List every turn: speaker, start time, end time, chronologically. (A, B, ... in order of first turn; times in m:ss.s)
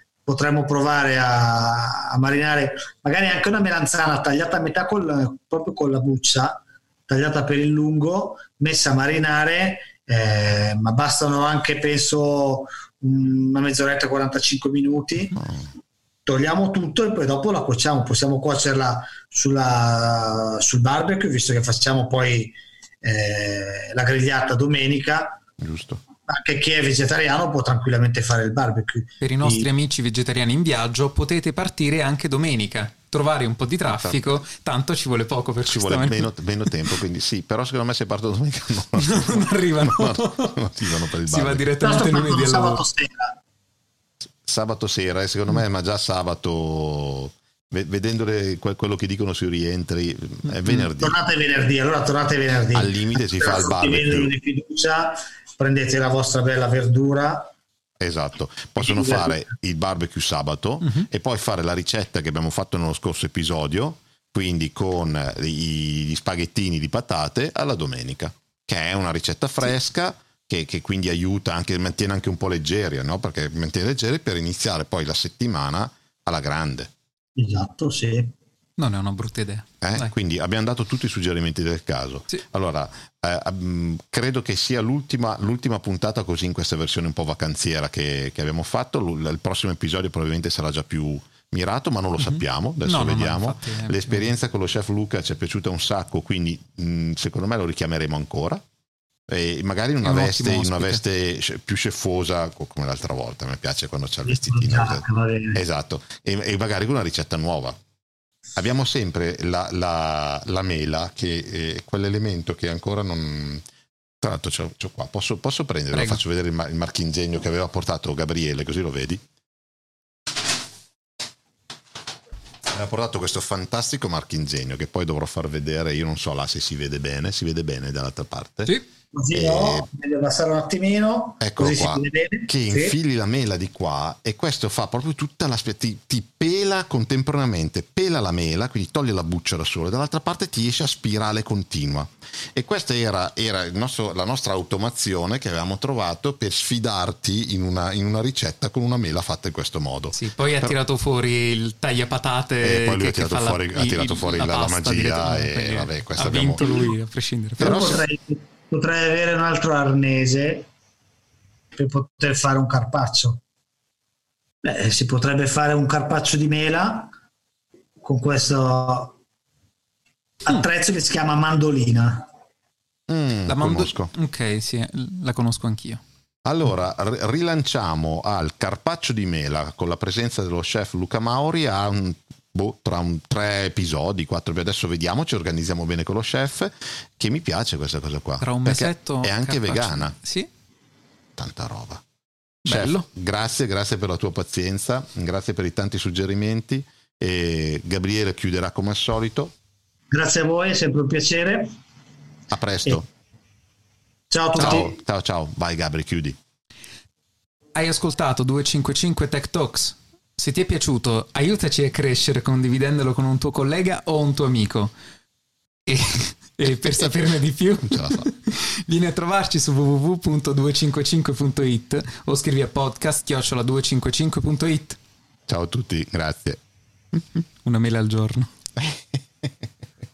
0:00.3-0:15.4 A
0:15.4-0:15.7 B
0:16.3-0:25.4 A
0:25.6-0:26.0 B
0:26.3-0:29.7 A
0:29.2-0:36.7 C
0:33.9-0:34.4 B
0:35.7-0:41.6 B
0:39.0-0:40.6 C
0:41.2-0:42.8 C
0:41.8-0:43.4 A
0:44.3-0:51.2 B
0:51.0-0:57.5 A
0:52.7-0:54.3 B
0:58.0-1:16.9 B
0:58.8-0:59.4 A
1:00.8-1:01.1 C
1:17.4-1:18.3 A
1:18.8-1:20.1 C
1:19.8-1:38.6 B
1:32.2-1:34.3 C
1:39.3-1:45.0 B
1:40.0-1:41.0 C
1:44.3-1:45.6 A
1:45.5-1:47.8 B
1:48.6-1:53.6 B
1:54.2-1:59.2 B
1:55.9-1:56.2 C
2:02.7-2:08.8 B
2:09.1-2:13.0 A
2:09.3-2:09.9 B
2:11.4-2:30.8 B
2:30.1-2:37.9 C
2:32.6-2:36.8 B
2:37.6-2:38.0 B
2:37.6-2:40.7 A
2:41.8-2:43.4 A
2:44.6-2:47.1 A
2:48.0-2:49.2 A
2:50.4-2:52.3 A
2:53.1-2:54.1 B
2:53.5-2:56.0 C
2:56.4-3:10.2 B
3:08.4-3:10.5 C
3:11.4-3:12.0 B
3:12.6-3:13.1 C
3:12.6-3:19.5 B
3:20.1-3:21.7 A
3:22.5-3:23.1 B
3:24.3-3:24.9 A
3:24.6-3:26.4 B
3:24.6-3:24.9 C
3:27.8-3:34.9 C
3:35.9-3:45.0 C
3:37.8-3:38.3 B
3:45.5-3:46.6 B
3:47.6-3:48.5 C